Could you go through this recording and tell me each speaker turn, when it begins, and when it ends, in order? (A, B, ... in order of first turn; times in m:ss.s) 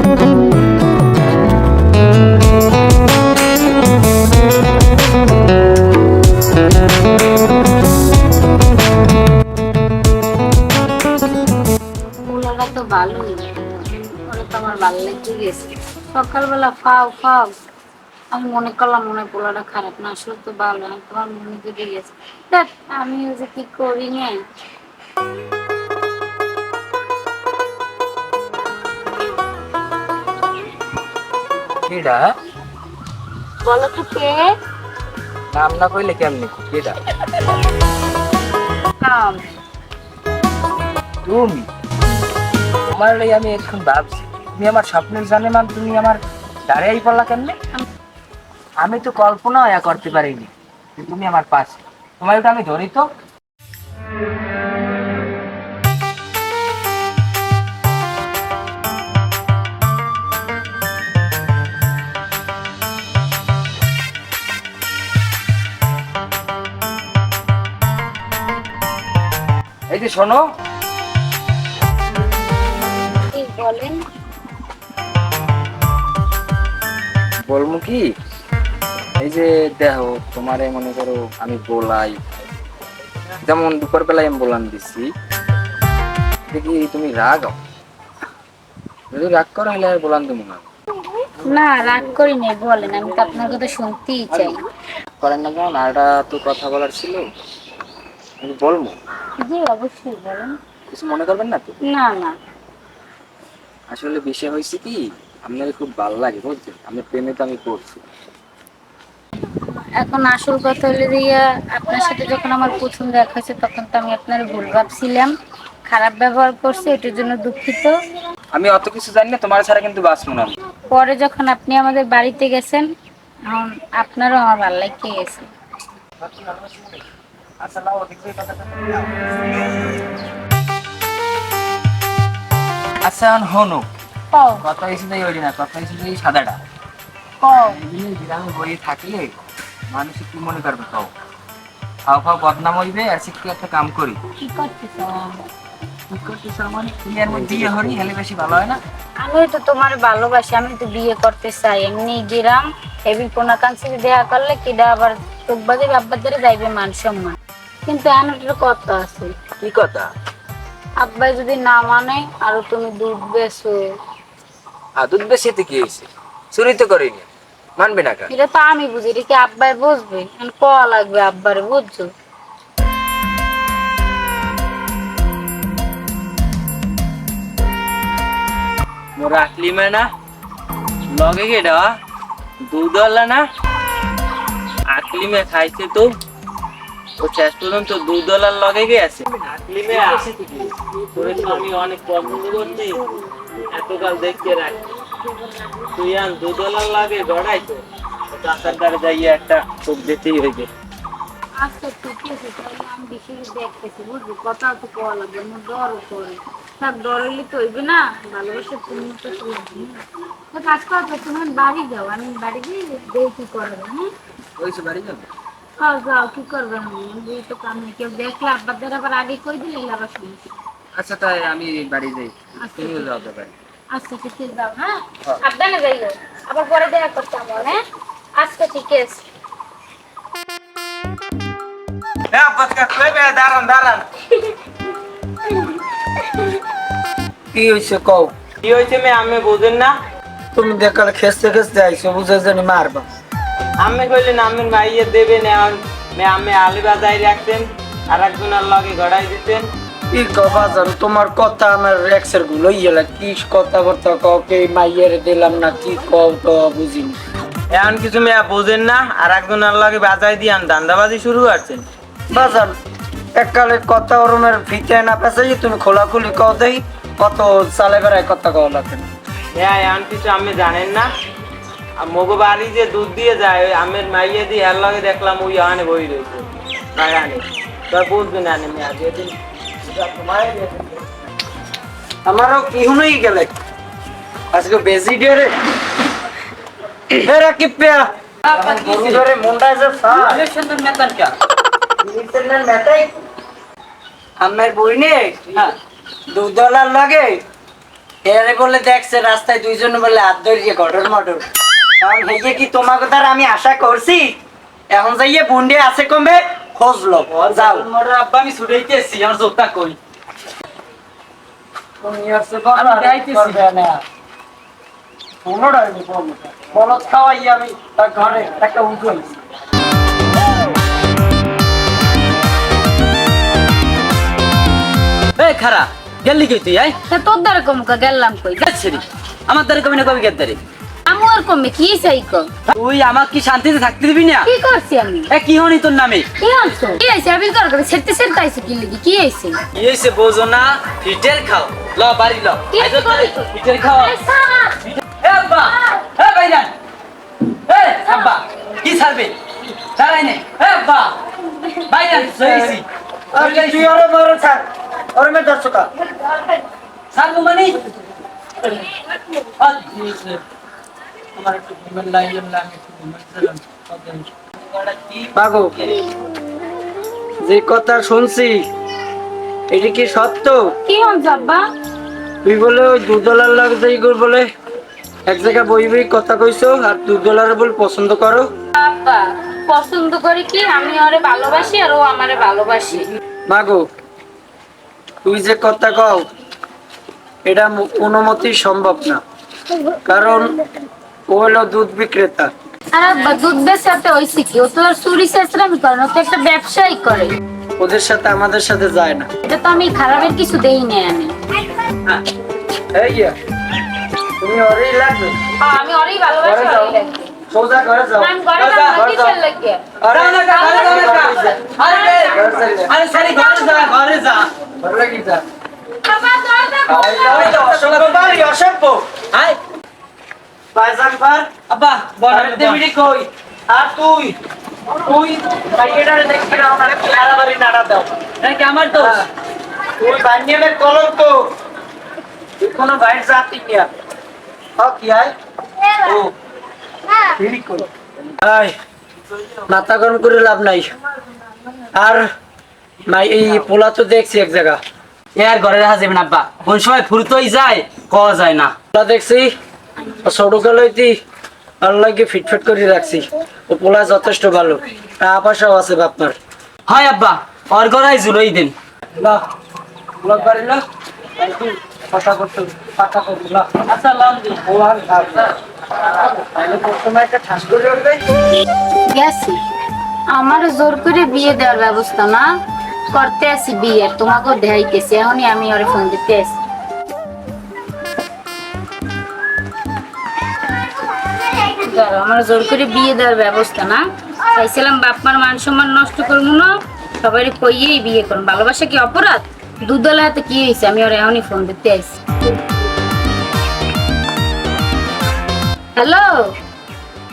0:12.2-0:17.5 A
0:18.3-0:24.4 A
0:31.8-0:32.3 B
0:33.6-0:34.5 A
0:35.5-0:37.0 B
0:39.0-0:39.6 A
0:41.2-0:41.7 B
0:42.9-0:47.6 B
0:48.8-0:53.1 B
1:09.9-1:10.5 B
1:13.2-1:14.0 A
1:17.4-1:18.1 B
1:19.2-1:22.2 B
1:23.4-1:25.1 B
1:26.5-1:27.6 B
1:29.1-1:30.6 B
1:31.4-1:34.6 A
1:35.2-1:37.3 B
1:38.4-1:39.0 B
1:39.4-1:40.6 A
1:40.9-1:41.8 B
1:41.8-1:42.3 A
1:43.9-1:48.0 B
1:49.4-1:55.3 A
1:55.9-1:58.0 A
1:58.5-2:00.5 B
2:00.9-2:02.9 A
2:03.5-2:05.5 A
2:06.2-2:07.0 B
2:07.6-2:09.2 B
2:13.0-2:13.9 B
2:14.3-2:14.6 A
2:14.6-2:16.6 B
2:17.4-2:17.8 A
2:17.7-2:19.3 B
2:19.9-2:21.1 B
2:22.1-2:24.2 B
2:24.4-2:25.5 A
2:26.1-2:28.8 B
2:29.2-2:39.3 A
2:39.6-2:40.1 B
2:41.0-2:43.8 A
2:45.0-2:48.3 B
2:48.3-2:52.1 A
2:59.2-3:00.1 C
3:01.1-3:02.0 C
3:02.7-3:03.4 C
3:04.9-3:06.1 C
3:07.2-3:10.3 C
3:09.9-3:10.7 B
3:11.1-3:13.0 C
3:13.7-3:14.8 C
3:15.4-3:15.9 A
3:15.9-3:17.8 C
3:18.3-3:20.7 C
3:21.6-3:34.1 A
3:34.6-3:35.3 B
3:35.8-3:40.5 A
3:40.9-3:43.5 B
3:42.6-3:43.2 A
3:43.9-3:47.8 A
3:48.4-3:49.2 A
3:52.3-3:54.0 C
3:52.3-3:54.0 D
3:57.5-3:58.3 D
3:58.6-3:59.9 C
4:00.5-4:03.1 D
4:03.8-4:09.7 C
4:10.1-4:17.2 D
4:17.7-4:21.8 C
4:22.3-4:22.8 D
4:23.3-4:29.0 D
4:29.5-4:31.1 C
4:32.0-4:39.3 C
4:39.8-4:41.0 D
4:42.2-4:43.5 D
4:44.5-4:45.5 D
4:47.1-4:50.4 D
4:48.4-4:49.3 E
4:50.1-4:51.3 E
4:52.0-4:53.1 D
4:54.4-4:55.7 D
4:56.3-4:57.4 D
4:58.2-5:01.4 D
5:02.0-5:04.4 D
5:04.9-5:07.9 D
5:07.3-5:10.0 E
5:12.0-5:14.0 D
5:12.7-5:13.6 E
5:15.4-5:19.3 D
5:25.4-5:27.0 E
5:27.1-5:28.7 A
5:28.6-5:30.6 E
5:31.1-5:32.5 A
5:32.7-5:34.5 E
5:34.4-5:35.3 A
5:35.3-5:36.3 E
5:36.4-5:39.6 A
5:39.7-5:44.2 E
5:42.7-5:44.8 A
5:45.2-5:46.7 E
5:47.6-5:49.3 E
5:50.0-5:51.2 E
5:51.9-5:53.9 E
5:52.3-5:52.8 D
5:53.3-5:55.9 D
5:57.1-5:57.9 E
5:59.6-6:00.4 E
6:01.4-6:01.9 D
6:01.5-6:05.3 E
6:05.3-6:05.9 D
6:07.4-6:08.6 D
6:09.7-6:10.7 D
6:10.8-6:11.6 A
6:12.4-6:14.5 D
6:15.3-6:18.5 D
6:18.7-6:23.1 A
6:23.5-6:23.9 D
6:25.2-6:26.3 D
6:27.4-6:29.2 D
6:30.0-6:30.6 D
6:31.3-6:32.5 D
6:32.9-6:37.4 A
6:37.8-6:39.3 D
6:39.4-6:41.4 A
6:42.9-6:43.4 D
6:44.4-6:45.4 D
6:45.6-6:47.3 A
6:46.4-6:49.4 D
6:48.2-6:49.9 A
6:48.6-6:48.9 E
6:50.0-6:51.6 D
6:50.1-6:54.5 E
6:50.6-6:52.4 A
6:52.3-6:52.9 D
6:53.2-6:53.9 A
6:54.8-6:55.4 D
6:56.0-6:57.6 A
6:56.9-6:59.1 D
6:57.2-6:58.5 E
7:00.7-7:01.5 D
7:01.7-7:03.3 E
7:02.2-7:02.9 D
7:03.7-7:04.4 D
7:04.9-7:08.1 D
7:08.4-7:09.2 E
7:08.9-7:09.3 D
7:10.0-7:11.5 D
7:12.6-7:13.9 D
7:14.8-7:15.3 D
7:16.0-7:16.3 D
7:17.2-7:17.9 D
7:18.4-7:18.7 D
7:19.6-7:20.9 D
7:21.9-7:22.3 D
7:23.0-7:24.8 D
7:25.3-7:28.7 E
7:28.9-7:29.5 D
7:30.2-7:31.2 D
7:31.8-7:36.4 D
7:36.9-7:38.7 E
7:39.2-7:39.4 D
7:40.2-7:40.8 D
7:41.4-7:43.9 D
7:43.8-7:44.6 E
7:44.6-7:48.2 D
7:49.1-7:49.6 A
7:50.3-7:52.5 A
7:53.1-7:56.6 A
8:01.4-8:12.1 A
8:16.0-8:16.5 A